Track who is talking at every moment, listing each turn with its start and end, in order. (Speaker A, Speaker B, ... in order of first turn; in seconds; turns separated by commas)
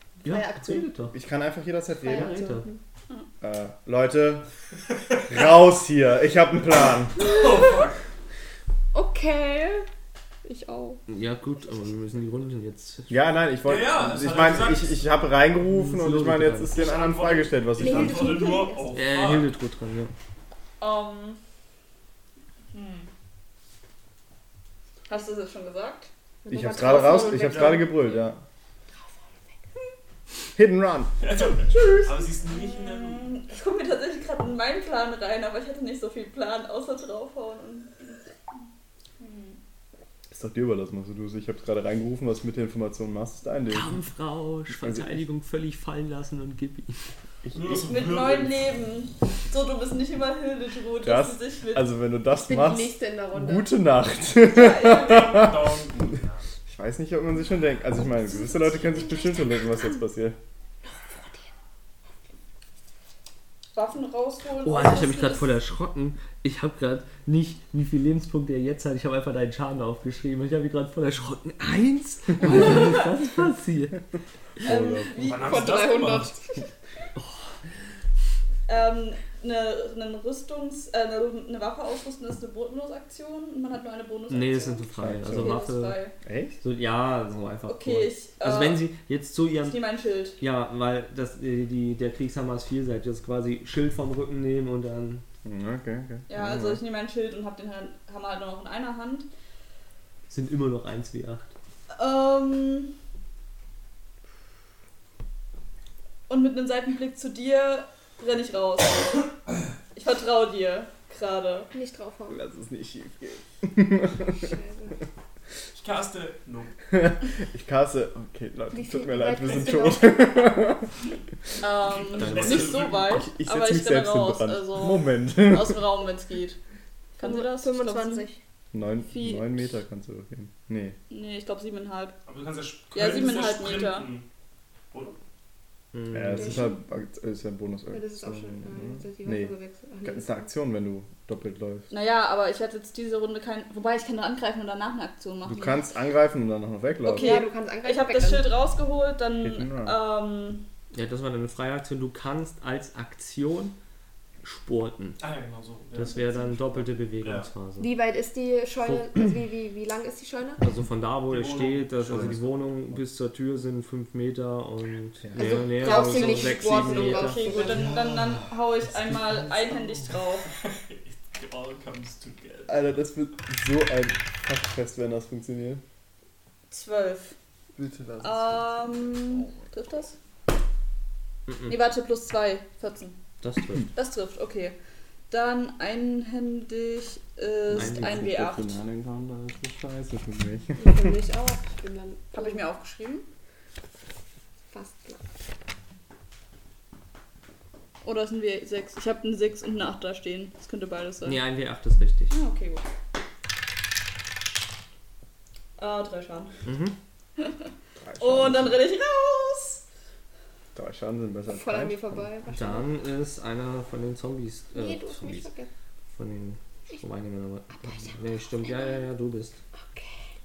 Speaker A: 0.2-1.1, Speaker B: 0.2-0.8, Speaker C: 1.1-2.3, Speaker B: 2.0-2.8, Speaker A: 2.1-2.7, Speaker C: 3.4-4.4, Speaker C: 5.3-7.2, Speaker D: 7.2-8.0, Speaker B: 8.9-9.9, Speaker B: 10.4-11.0, Speaker A: 11.1-13.2, Speaker C: 13.1-18.4, Speaker D: 13.6-15.0, Speaker A: 15.6-16.8, Speaker D: 16.7-19.5, Speaker B: 17.8-19.0, Speaker A: 18.9-20.1, Speaker E: 20.8-21.4, Speaker E: 22.7-23.1, Speaker E: 25.1-26.1, Speaker B: 26.4-28.1, Speaker C: 26.5-28.4, Speaker D: 27.0-27.8, Speaker C: 30.6-31.1, Speaker D: 31.2-33.3, Speaker B: 31.8-32.0, Speaker E: 32.5-38.2, Speaker E: 39.2-39.6, Speaker C: 40.3-43.9, Speaker A: 43.7-47.0, Speaker C: 44.7-45.2, Speaker C: 47.4-47.8, Speaker D: 47.5-48.5, Speaker E: 47.7-51.9, Speaker C: 51.0-55.8, Speaker B: 52.4-53.7, Speaker E: 54.4-55.4, Speaker D: 55.0-56.2, Speaker C: 56.7-60.4, Speaker B: 58.4-59.6, Speaker E: 63.7-65.5, Speaker A: 64.6-74.0, Speaker E: 72.6-72.9, Speaker C: 74.6-75.4, Speaker E: 74.6-76.0, Speaker D: 75.2-76.3, Speaker B: 75.3-76.6, Speaker A: 77.2-77.5, Speaker E: 78.7-86.1, Speaker A: 84.3-86.0, Speaker C: 85.0-85.6, Speaker C: 86.2-86.5, Speaker A: 86.6-89.8, Speaker E: 87.7-88.9, Speaker E: 89.6-90.4, Speaker A: 90.4-95.2, Speaker C: 95.4-96.8, Speaker E: 96.3-99.3, Speaker A: 100.3-101.5, Speaker E: 101.9-102.9, Speaker E: 106.3-109.3, Speaker E: 109.9-111.7, Speaker B: 111.7-112.4, Speaker C: 112.3-114.5, Speaker B: 114.3-114.9, Speaker D: 115.7-116.7, Speaker C: 116.9-120.9, Speaker B: 118.7-120.4, Speaker D: 119.5-119.8, Speaker E: 121.6-126.6, Speaker D: 121.8-123.2, Speaker A: 122.2-122.9, Speaker C: 123.0-125.8, Speaker E: 127.2-128.3, Speaker B: 127.2-128.4, Speaker C: 128.7-131.0, Speaker E: 129.1-129.6, Speaker E: 131.1-132.2, Speaker D: 132.2-134.2, Speaker E: 132.9-134.1, Speaker A: 135.9-136.7, Speaker C: 136.1-141.9, Speaker B: 136.4-136.7, Speaker B: 137.9-140.5, Speaker E: 141.9-145.8, Speaker C: 145.4-147.4, Speaker E: 147.0-150.6, Speaker B: 147.1-148.5, Speaker C: 149.4-150.0, Speaker A: 150.9-153.7, Speaker A: 154.4-155.2, Speaker D: 155.2-156.2, Speaker A: 155.9-157.9, Speaker D: 157.2-157.5, Speaker B: 157.8-160.6, Speaker A: 160.6-167.5, Speaker D: 161.3-162.4, Speaker C: 162.0-163.0, Speaker C: 165.2-165.9, Speaker B: 165.3-167.9, Speaker E: 165.8-170.5, Speaker C: 167.7-168.5, Speaker D: 170.6-172.8, Speaker C: 172.7-175.8, Speaker E: 176.7-177.3, Speaker C: 177.8-179.1, Speaker E: 178.2-180.2, Speaker A: 181.5-181.8, Speaker E: 181.7-183.2, Speaker A: 183.4-183.9, Speaker E: 183.9-184.8, Speaker E: 185.3-188.8, Speaker A: 187.7-188.3, Speaker C: 187.7-191.2, Speaker B: 190.8-192.7, Speaker E: 192.3-193.2, Speaker B: 194.7-195.2, Speaker E: 198.0-201.4, Speaker A: 201.2-202.4, Speaker E: 202.3-202.8, Speaker E: 205.8-206.5, Speaker A: 206.6-206.9, Speaker E: 207.4-207.6, Speaker C: 208.0-208.8, Speaker E: 208.2-209.8, Speaker C: 210.7-212.3, Speaker B: 211.5-212.9, Speaker A: 212.5-215.5, Speaker B: 214.7-215.7, Speaker A: 216.1-219.6, Speaker B: 217.8-219.0, Speaker B: 219.7-220.3